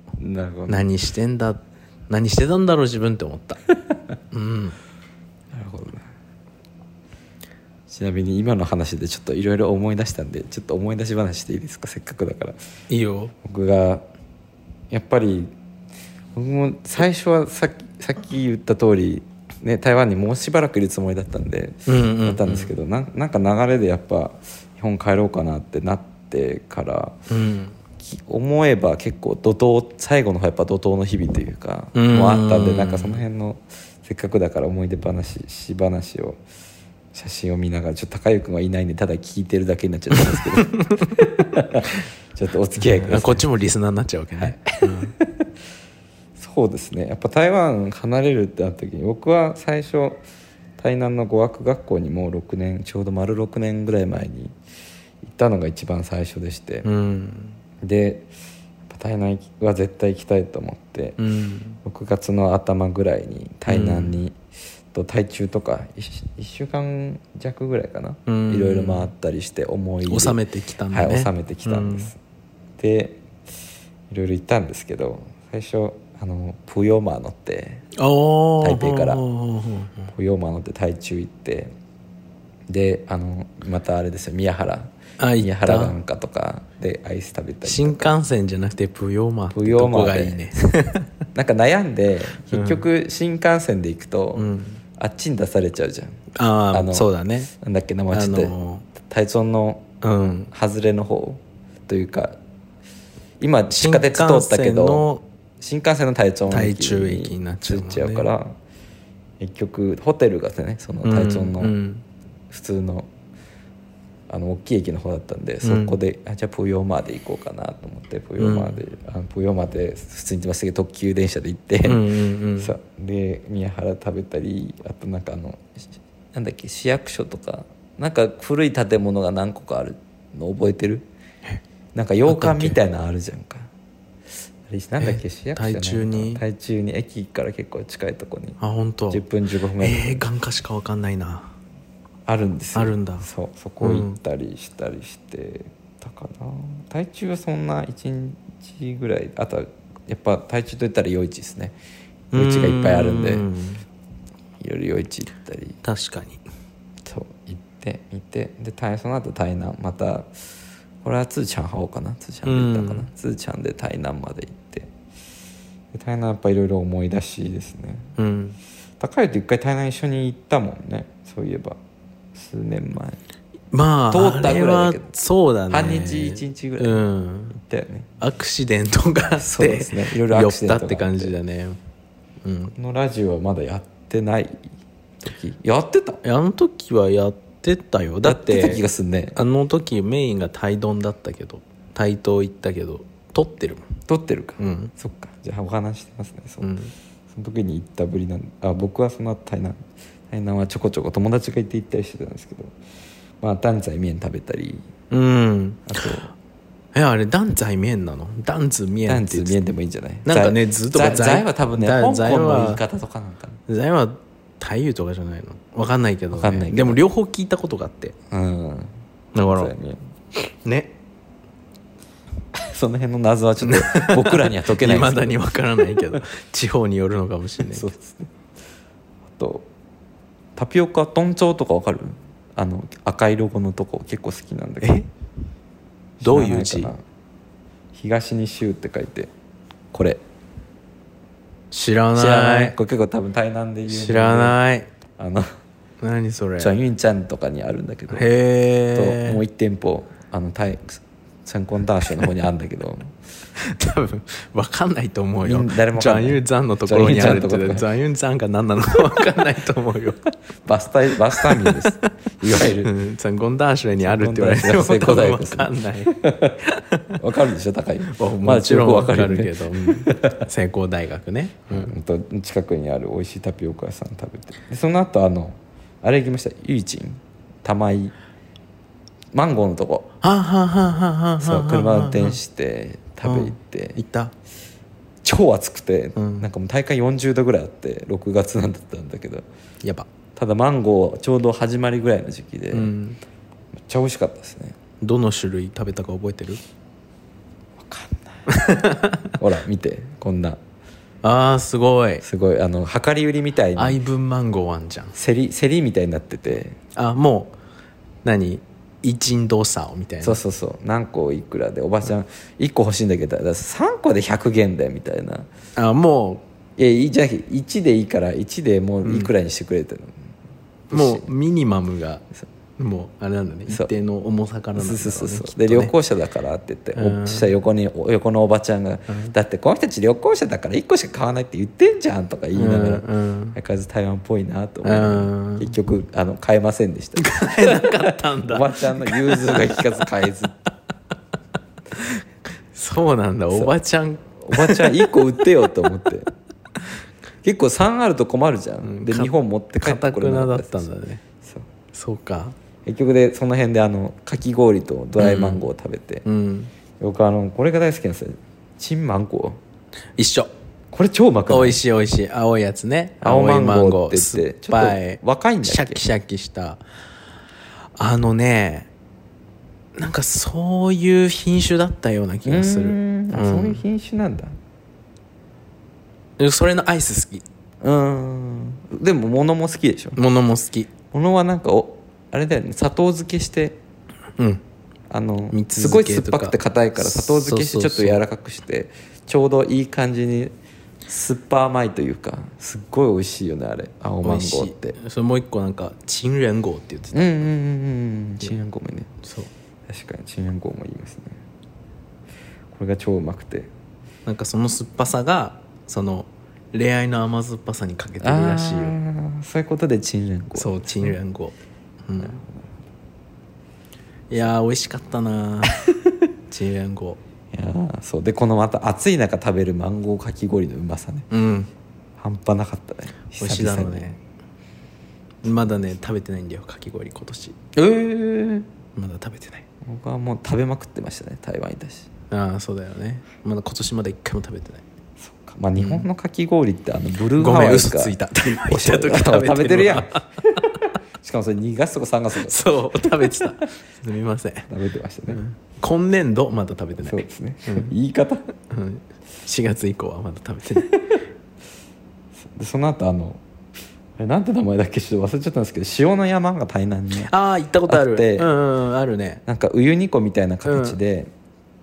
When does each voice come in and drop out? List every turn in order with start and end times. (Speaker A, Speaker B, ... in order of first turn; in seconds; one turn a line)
Speaker A: 0.2-0.9
Speaker B: 0.7-3.6
Speaker B: 4.3-4.8
Speaker A: 5.5-6.1
Speaker A: 7.9-12.6
Speaker B: 12.9-13.3
Speaker A: 13.4-14.0
Speaker A: 14.9-15.5
Speaker A: 16.4-27.2
Speaker B: 21.9-22.7
Speaker B: 27.3-27.8
Speaker A: 28.0-36.4
Speaker B: 31.9-33.2
Speaker A: 37.1-43.4
Speaker B: 40.3-41.1
Speaker B: 42.8-45.1
Speaker A: 44.4-45.5
Speaker A: 46.4-50.2
Speaker A: 50.8-54.5
Speaker A: 55.2-56.9
Speaker B: 56.8-57.6
Speaker A: 57.8-58.3
Speaker A: 58.9-61.2
Speaker B: 61.2-61.8
Speaker A: 61.8-64.4
Speaker B: 63.7-64.2
Speaker A: 64.9-70.4
Speaker B: 68.3-69.1
Speaker B: 70.1-72.1
Speaker A: 70.9-72.2
Speaker A: 72.8-73.2
Speaker A: 74.1-77.8
Speaker B: 78.0-80.1
Speaker A: 78.6-79.2
Speaker A: 80.1-81.7
Speaker A: 82.7-88.1
Speaker B: 85.2-86.0
Speaker B: 87.6-91.1
Speaker A: 89.5-90.5
Speaker A: 91.3-94.5
Speaker B: 92.5-92.8
Speaker B: 94.4-94.8
Speaker A: 95.0-96.2
Speaker B: 96.3-97.5
Speaker A: 96.7-99.9
Speaker B: 98.1-98.9
Speaker B: 100.0-100.5
Speaker A: 100.5-102.4
Speaker A: 103.4-105.1
Speaker B: 103.7-105.2
Speaker A: 105.6-108.5
Speaker B: 106.5-108.3
Speaker A: 109.4-111.8
Speaker B: 111.0-112.0
Speaker A: 112.5-113.1
Speaker A: 114.3-122.1
Speaker B: 115.6-116.0
Speaker B: 118.4-118.8
Speaker B: 121.8-122.7
Speaker A: 122.6-125.8
Speaker A: 126.3-131.1
Speaker A: 131.9-133.7
Speaker B: 132.3-132.8
Speaker A: 134.7-138.6
Speaker B: 135.0-136.4
Speaker B: 138.6-139.2
Speaker A: 139.1-140.2
Speaker B: 139.8-141.5
Speaker A: 142.3-151.8
Speaker B: 142.8-143.3
Speaker B: 143.8-144.2
Speaker B: 152.3-153.8
Speaker A: 152.3-153.5
Speaker A: 154.6-155.8
Speaker B: 155.8-156.4
Speaker A: 157.1-160.5
Speaker A: 161.0-164.9
Speaker B: 162.4-163.1
Speaker A: 165.9-168.1
Speaker B: 168.2-168.6
Speaker A: 169.0-171.8
Speaker A: 172.3-173.2
Speaker B: 173.7-177.6
Speaker A: 174.1-175.1
Speaker A: 175.7-178.1
Speaker B: 178.2-181.8
Speaker A: 179.4-181.3
Speaker B: 182.4-182.8
Speaker A: 182.8-184.7
Speaker A: 185.2-186.2
Speaker B: 186.2-188.8
Speaker A: 188.2-189.4
Speaker B: 189.3-193.9
Speaker A: 194.1-196.7
Speaker B: 194.6-194.9
Speaker B: 196.6-196.9
Speaker A: 197.3-202.8
Speaker A: 203.4-204.9
Speaker B: 205.1-206.2
Speaker A: 205.9-206.3
Speaker B: 206.9-209.6
Speaker A: 209.1-213.6
Speaker B: 210.2-212.8
Speaker B: 213.7-218.2
Speaker A: 216.3-217.0
Speaker A: 218.3-218.9
Speaker B: 219.3-219.7
Speaker A: 219.4-220.0
Speaker B: 220.4-220.9
Speaker A: 222.6-226.2
Speaker B: 223.6-227.9
Speaker A: 227.7-228.3
Speaker A: 229.3-229.7
Speaker A: 230.6-235.0
Speaker B: 234.8-235.1
Speaker A: 236.2-237.0
Speaker B: 236.2-236.9
Speaker A: 237.9-239.3
Speaker A: 239.9-240.2
Speaker B: 241.7-242.8
Speaker A: 242.2-244.6
Speaker B: 243.9-244.9
Speaker A: 245.2-245.5
Speaker B: 246.0-246.7
Speaker A: 246.6-248.3
Speaker B: 248.1-249.4
Speaker A: 248.9-253.2
Speaker B: 253.6-260.2
Speaker A: 255.4-257.9
Speaker A: 260.6-262.9
Speaker B: 261.3-262.1
Speaker B: 262.8-267.2
Speaker A: 264.0-266.6
Speaker A: 267.2-270.4
Speaker B: 268.1-271.9
Speaker A: 271.7-278.1
Speaker A: 279.3-280.1
Speaker B: 280.2-282.4
Speaker A: 281.4-284.0
Speaker B: 283.2-284.3
Speaker A: 285.2-289.5
Speaker B: 286.2-286.5
Speaker A: 290.4-292.9
Speaker B: 292.7-293.2
Speaker A: 293.9-294.8
Speaker B: 295.0-296.6
Speaker A: 297.8-298.5
Speaker B: 298.5-299.3
Speaker A: 299.4-300.6
Speaker B: 301.2-302.2
Speaker A: 302.2-304.0
Speaker B: 303.8-305.1
Speaker A: 305.1-306.8
Speaker B: 306.9-307.6
Speaker B: 308.2-310.4
Speaker A: 310.2-315.5
Speaker B: 315.8-316.4
Speaker A: 316.8-320.3
Speaker B: 319.0-319.3
Speaker A: 320.9-321.3
Speaker B: 320.9-322.2
Speaker B: 322.8-325.9
Speaker A: 324.8-340.7
Speaker B: 326.9-327.5
Speaker B: 329.1-329.3
Speaker B: 332.6-333.6
Speaker B: 334.8-335.7
Speaker B: 337.2-340.0
Speaker B: 341.9-345.1
Speaker A: 344.4-346.3
Speaker A: 347.4-350.9
Speaker B: 348.8-351.2
Speaker A: 351.4-351.7
Speaker B: 351.9-352.6
Speaker A: 352.9-356.2
Speaker B: 355.2-355.7
Speaker B: 356.2-356.7
Speaker A: 357.0-359.6
Speaker B: 360.2-360.5
Speaker A: 360.9-361.8
Speaker B: 361.5-366.8
Speaker A: 363.2-366.0
Speaker B: 368.0-368.9
Speaker B: 370.0-373.8
Speaker A: 372.4-374.6
Speaker B: 376.4-377.4
Speaker A: 377.8-380.2
Speaker B: 380.2-380.9
Speaker A: 381.1-383.8
Speaker A: 385.1-390.5
Speaker B: 385.5-388.2
Speaker A: 391.1-395.0
Speaker B: 394.2-397.5
Speaker A: 397.1-399.1
Speaker B: 399.2-399.5
Speaker A: 399.9-401.4
Speaker A: 402.7-403.7
Speaker B: 404.3-409.0
Speaker A: 408.2-411.2
Speaker B: 410.6-411.6
Speaker B: 412.1-412.4
Speaker A: 412.2-412.7
Speaker B: 414.3-415.8
Speaker B: 416.5-417.2
Speaker A: 417.5-421.3
Speaker B: 421.3-421.7
Speaker A: 422.2-424.2
Speaker B: 423.4-424.2
Speaker B: 425.4-427.7
Speaker A: 425.4-425.8
Speaker A: 427.8-428.7
Speaker B: 428.9-429.6
Speaker A: 429.8-432.1
Speaker B: 432.3-434.8
Speaker A: 435.2-443.5
Speaker B: 435.8-436.1
Speaker B: 437.4-440.8
Speaker B: 442.4-444.7
Speaker A: 444.7-445.4
Speaker B: 445.3-447.9
Speaker A: 447.0-448.4
Speaker B: 448.7-450.9
Speaker A: 452.4-453.4
Speaker A: 454.2-457.3
Speaker B: 457.2-459.4
Speaker A: 457.9-458.5
Speaker A: 459.5-461.3
Speaker B: 460.7-461.0